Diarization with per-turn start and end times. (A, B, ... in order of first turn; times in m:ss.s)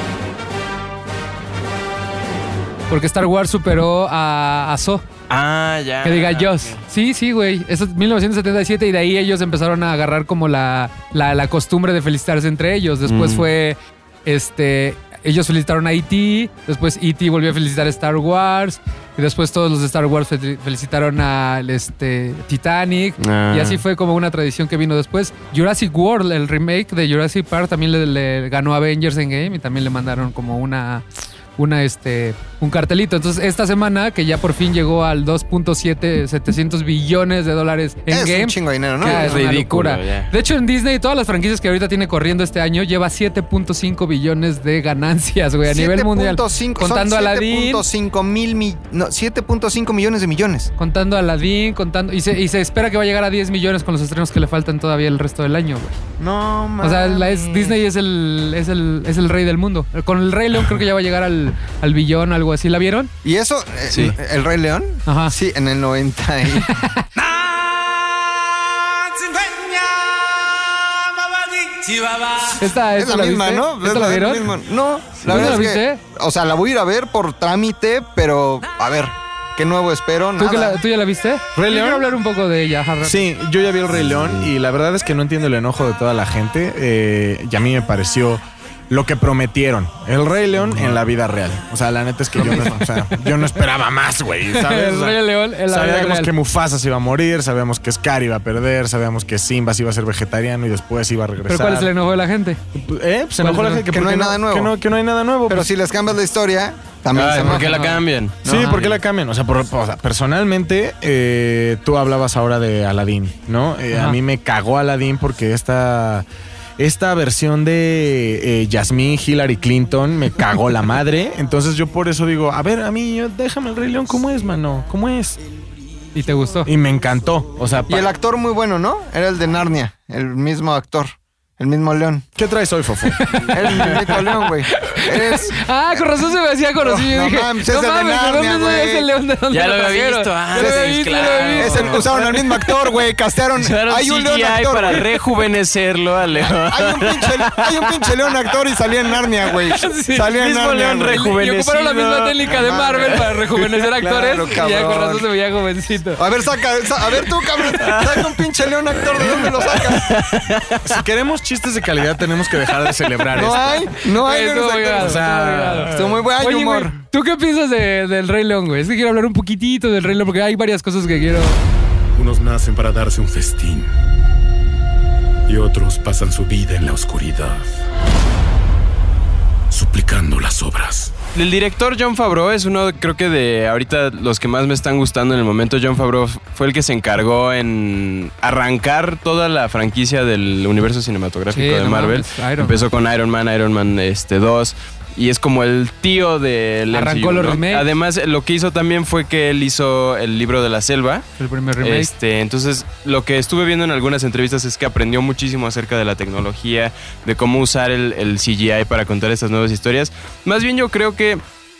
0:02.9-0:05.0 A
0:05.3-0:06.8 B
0:06.0-0:31.0 A
0:13.1-0:13.5 B
0:23.2-0:23.8 B
0:31.6-0:47.8 A
0:38.1-0:39.4 C
0:39.0-0:40.3 B
0:45.6-0:50.7 C
0:50.8-0:56.0 A
0:56.2-0:57.8 C
0:56.8-1:03.1 A
1:03.2-1:06.8 C
1:03.9-1:04.2 B
1:05.0-1:05.3 A
1:06.6-1:07.1 A
1:12.5-1:14.5 A
1:12.9-1:20.8 C
1:15.2-1:15.6 B
1:15.2-1:16.0 A
1:20.4-1:23.2 A
1:21.5-1:22.0 D
1:23.0-1:41.9 D
1:24.1-1:24.4 B
1:32.4-1:32.8 C
1:34.5-1:36.3 A
1:41.5-1:42.6 A
1:42.7-1:45.7 D
1:43.4-1:43.8 A
1:43.9-1:44.7 C
1:45.5-1:47.9 C
1:47.1-1:48.7 B
1:47.4-1:48.8 A
1:48.4-1:56.2 D
1:48.4-1:48.8 C
1:53.9-1:54.2 A
1:56.8-2:05.4 D
2:06.1-2:06.7 A
2:06.6-2:08.1 D
2:07.9-2:12.3 C
2:12.4-2:13.2 D
2:13.1-2:22.1 A
2:13.5-2:19.1 C
2:19.5-2:22.9 B
2:20.5-2:25.1 C
2:23.6-2:28.5 B
2:26.7-2:31.2 C
2:29.7-2:30.4 A
2:30.3-2:32.4 B
2:31.1-2:36.2 A
2:32.4-2:35.3 C
2:36.2-2:40.2 C
2:37.2-2:41.0 B
2:40.8-2:43.7 D
2:43.3-2:45.2 C
2:44.0-2:51.6 A
2:45.0-2:46.1 D
2:45.8-2:47.0 C
2:52.1-2:53.9 E
2:55.5-2:57.7 E
2:59.7-3:01.1 E
3:01.3-3:21.2 B
3:11.5-3:12.8 A
3:16.9-3:17.9 A
3:21.4-3:22.1 A
3:21.8-3:31.4 B